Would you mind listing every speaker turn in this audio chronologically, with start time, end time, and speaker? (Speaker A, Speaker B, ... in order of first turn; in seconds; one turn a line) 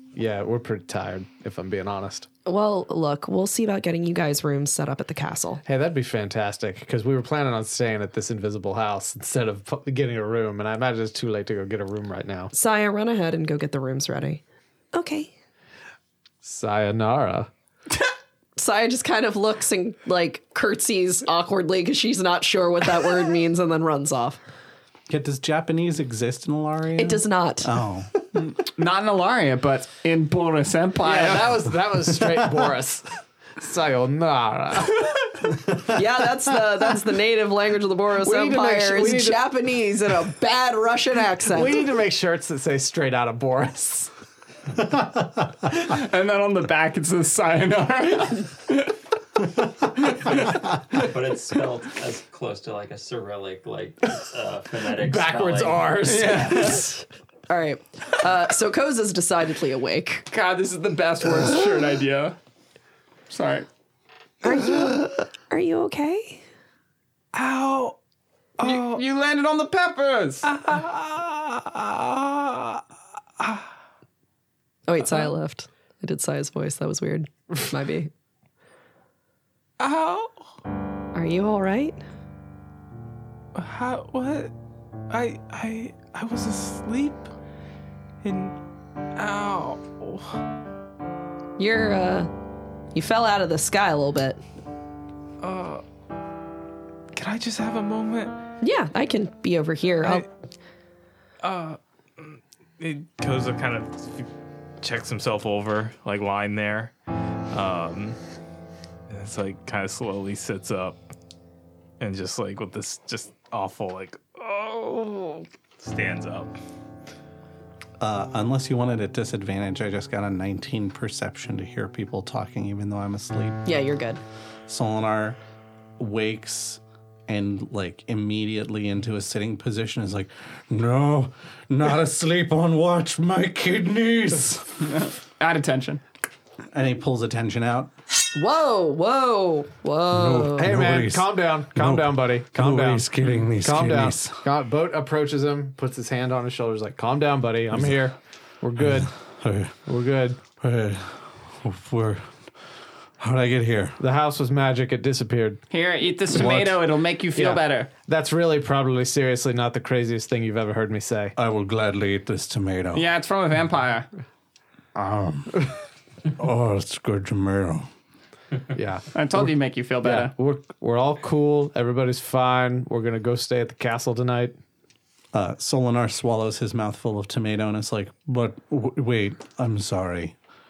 Speaker A: 0.1-2.3
Speaker B: 2.4-5.6
Speaker A: 5.6-12.5
Speaker B: 12.5-14.4
Speaker B: 14.9-15.3
Speaker A: 16.4-17.5
Speaker B: 18.6-24.4
Speaker C: 25.1-28.1
Speaker B: 26.9-27.7
Speaker D: 28.4-31.6
Speaker A: 31.0-36.0
Speaker B: 35.9-41.8
Speaker A: 38.2-39.4
Speaker A: 41.5-44.1
Speaker D: 45.7-48.9
Speaker D: 50.1-50.5
Speaker E: 50.9-56.8
Speaker A: 55.0-56.8
Speaker D: 56.0-56.9
Speaker B: 57.5-60.3
Speaker D: 60.3-62.4
Speaker D: 63.3-63.7
Speaker B: 64.4-66.4
Speaker F: 67.3-68.0
Speaker F: 68.6-69.0
Speaker D: 68.6-70.5
Speaker F: 70.4-72.8
Speaker B: 74.9-78.1
Speaker F: 79.8-80.4
Speaker B: 81.1-82.0
Speaker F: 83.5-84.5
Speaker F: 85.1-87.3
Speaker F: 88.2-88.5
Speaker F: 89.1-90.4
Speaker B: 91.6-92.3
Speaker B: 92.9-94.4
Speaker F: 95.4-95.8
Speaker F: 97.1-98.3
Speaker B: 98.6-100.2
Speaker F: 101.4-104.3
Speaker F: 104.8-106.9
Speaker F: 107.5-108.2
Speaker F: 109.1-111.0
Speaker F: 112.0-116.5
Speaker C: 118.0-123.6
Speaker B: 123.6-124.2
Speaker C: 124.7-125.4
Speaker C: 126.0-134.7
Speaker D: 134.8-136.0
Speaker C: 136.7-137.9
Speaker B: 138.3-140.7
Speaker C: 140.1-144.4
Speaker A: 140.6-149.1
Speaker C: 148.8-149.8
Speaker A: 149.9-150.4
Speaker C: 150.6-152.5
Speaker C: 153.2-154.0
Speaker A: 154.0-155.6
Speaker D: 155.7-157.9
Speaker C: 156.3-156.8
Speaker A: 157.3-161.3
Speaker C: 161.3-163.1
Speaker D: 162.9-164.1
Speaker C: 164.9-165.7
Speaker C: 166.4-167.9
Speaker A: 168.7-174.6
Speaker D: 169.1-170.3
Speaker C: 175.3-180.3